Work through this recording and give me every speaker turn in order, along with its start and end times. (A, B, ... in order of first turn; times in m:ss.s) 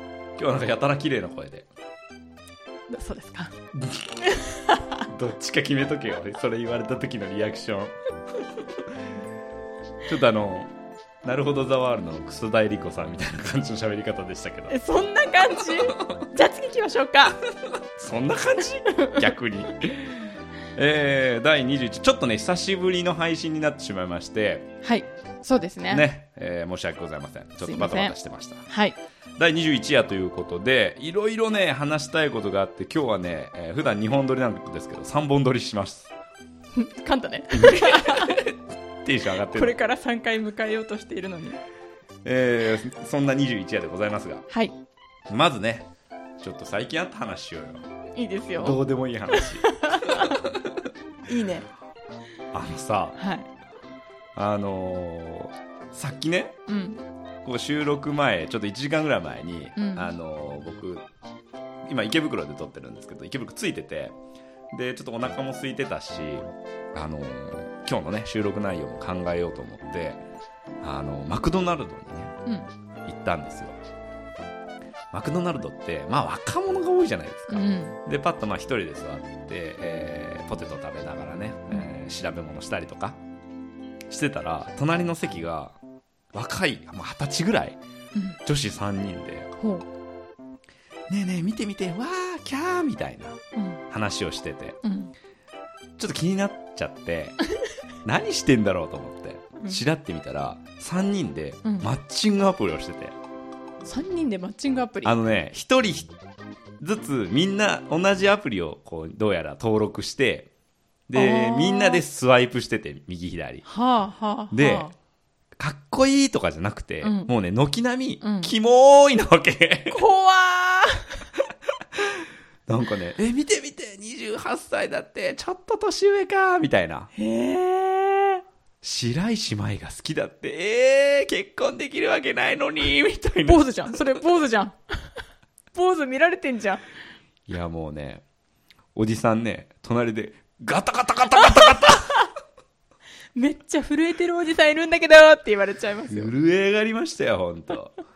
0:00.4-0:01.7 A
0:02.9-0:03.5 B
0:03.7-0:04.2 A
0:04.2-0:05.0 B
0:05.1-0:07.9 A
0:10.0-0:10.7 A
0:11.2-0:14.7 A
0:14.7-0:17.4 B
0:17.7-0:24.7 A
0:18.9-0:19.2 B
0:24.8-0:26.1 B
0:25.9-0:28.7 A
0:27.6-0:28.2 B
0:28.7-0:29.0 B
0:29.4-0:36.1 A
0:36.7-0:38.4 B
0:37.5-0:39.7 A
0:39.5-0:41.6 B
0:42.2-0:44.4 A
0:45.3-0:45.9 A
0:46.4-0:47.8 A
0:48.1-0:48.8 B
0:48.6-0:50.9 A
0:49.3-0:50.4 B
0:51.3-0:51.7 B
0:52.5-0:53.2 A
0:53.2-0:53.5 B
0:54.3-0:56.6 A
0:56.7-0:57.0 B
0:57.4-1:01.0 A
0:59.8-1:00.1 B
1:01.8-1:04.2 A
1:04.7-1:10.2 A
1:10.8-1:12.3 A
1:12.4-1:12.7 B
1:13.0-1:13.7 A
1:15.1-1:23.2 A
1:17.5-1:18.0 B
1:24.1-1:25.8 A
1:26.3-1:27.8 A
1:28.4-1:29.5 A
1:29.6-1:29.8 B
1:31.1-1:33.4 A
1:33.6-1:33.8 B
1:33.9-1:34.8 A
1:34.8-1:35.1 B
1:36.0-1:37.4 A
1:38.0-1:43.1 A
1:41.6-1:41.9 B
1:43.8-1:45.2 B
1:45.0-1:46.1 A
1:46.8-1:50.5 A
1:51.1-1:53.6 A
1:51.1-1:52.0 B
1:53.6-1:54.9 B
1:54.5-1:54.9 A
1:55.6-2:00.0 A
1:57.0-1:57.3 B
1:58.2-1:58.5 B
1:59.9-2:01.2 B
2:02.0-2:07.1 A
2:07.1-2:08.4 B
2:08.8-2:14.0 A
2:13.4-2:15.2 B
2:15.7-2:16.8 B
2:17.5-2:18.2 A
2:18.9-2:22.2 A
2:21.4-2:22.2 B
2:23.3-2:26.3 B
2:26.1-2:28.0 A